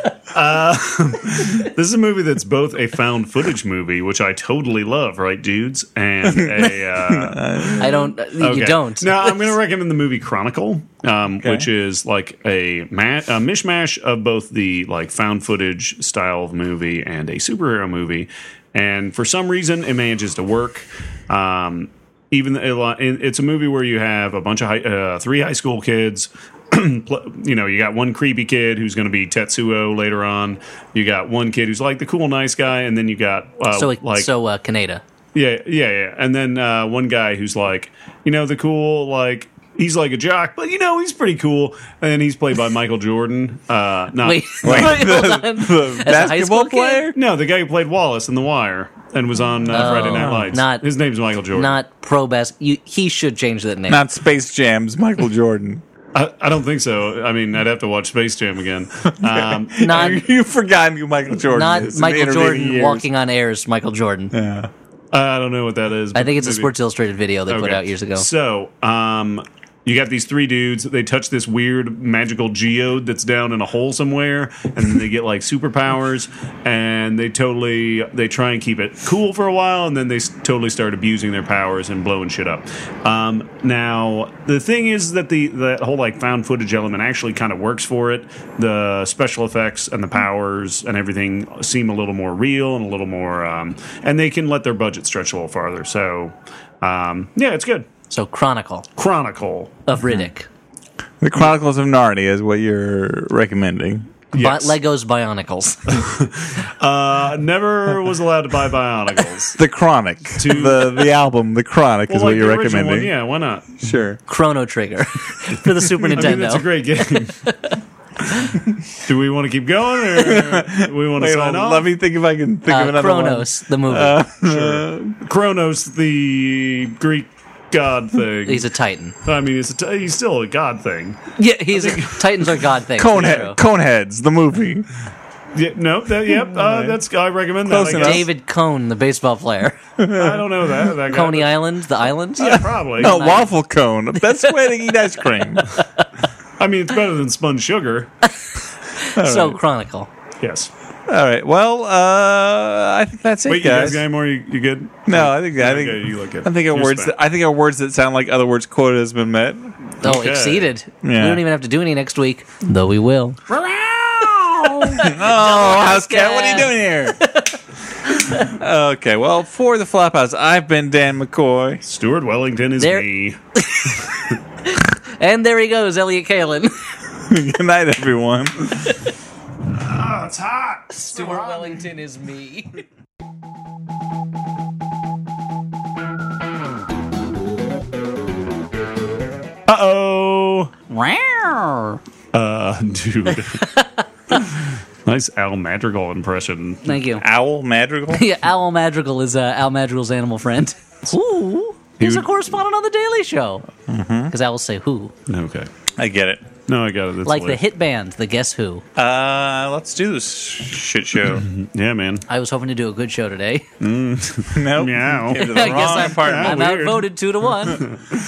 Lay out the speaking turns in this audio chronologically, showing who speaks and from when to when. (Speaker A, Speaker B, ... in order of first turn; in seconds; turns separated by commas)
Speaker A: 0.3-7.8, Speaker B: 6.3-8.1, Speaker C: 7.8-9.4, Speaker A: 8.4-34.3, Speaker B: 11.4-11.7, Speaker C: 33.7-35.0, Speaker A: 35.3-45.0, Speaker C: 44.2-47.1, Speaker B: 44.6-47.2, Speaker A: 47.1-51.8, Speaker C: 49.7-50.8, Speaker B: 49.8-50.5, Speaker C: 51.5-54.0, Speaker B: 53.9-55.8, Speaker A: 56.1-60.0, Speaker B: 59.2-63.0, Speaker C: 59.8-60.2, Speaker C: 61.5-64.3, Speaker B: 64.3-64.7, Speaker A: 65.1-66.7, Speaker C: 66.1-68.3, Speaker A: 67.5-97.9, Speaker C: 98.1-98.9, Speaker A: 99.0-99.8, Speaker C: 99.9-100.5, Speaker B: 101.2-104.1, Speaker A: 104.3-104.7, Speaker C: 104.3-106.0, Speaker A: 105.9-109.6, Speaker B: 109.6-113.1, Speaker A: 110.4-111.1, Speaker A: 112.1-113.7, Speaker B: 113.8-114.2, Speaker C: 114.3-116.7, Speaker A: 116.1-117.4, Speaker C: 117.4-118.5, Speaker A: 119.0-121.9, Speaker B: 120.1-125.2, Speaker C: 122.7-124.2, Speaker A: 124.4-128.7, Speaker C: 128.4-129.2, Speaker A: 129.2-131.2, Speaker C: 131.4-133.6, Speaker A: 131.7-132.3, Speaker B: 133.0-134.8, Speaker A: 135.5-138.3, Speaker B: 136.5-137.0, Speaker B: 137.7-138.3, Speaker C: 137.9-139.8, Speaker B: 140.0-140.8, Speaker A: 140.1-141.5, Speaker C: 141.1-143.5, Speaker A: 142.4-143.4, Speaker B: 142.4-145.8, Speaker C: 144.1-146.1, Speaker A: 146.6-148.1, Speaker C: 148.3-150.1, Speaker B: 149.1-149.6, Speaker A: 150.4-150.7, Speaker B: 151.1-154.0, Speaker A: 153.4-157.1, Speaker B: 155.1-159.7, Speaker A: 160.0-160.7, Speaker C: 160.0-163.4, Speaker B: 161.0-161.4, Speaker B: 163.6-167.2, Speaker C: 165.0-168.4, Speaker B: 168.2-171.8, Speaker A: 171.8-173.4, Speaker C: 172.8-176.8, Speaker B: 177.2-179.0, Speaker A: 179.6-181.8, Speaker C: 180.9-182.8, Speaker A: 189.7-190.7, Speaker C: 190.9-192.0, Speaker A: 192.3-193.6, Speaker C: 193.6-194.0, Speaker A: 194.3-197.0, Speaker C: 196.8-197.2, Speaker B: 197.2-198.3, Speaker C: 198.1-203.7, Speaker A: 202.0-202.3, Speaker B: 203.9-204.3, Speaker C: 204.3-205.1, Speaker A: 205.3-205.7, Speaker B: 206.0-206.5, Speaker A: 206.7-207.6, Speaker C: 207.2-208.8, Speaker B: 208.9-211.5, Speaker A: 211.3-212.2, Speaker C: 212.3-213.7, Speaker A: 213.8-217.1, Speaker B: 214.5-216.8, Speaker C: 215.3-217.9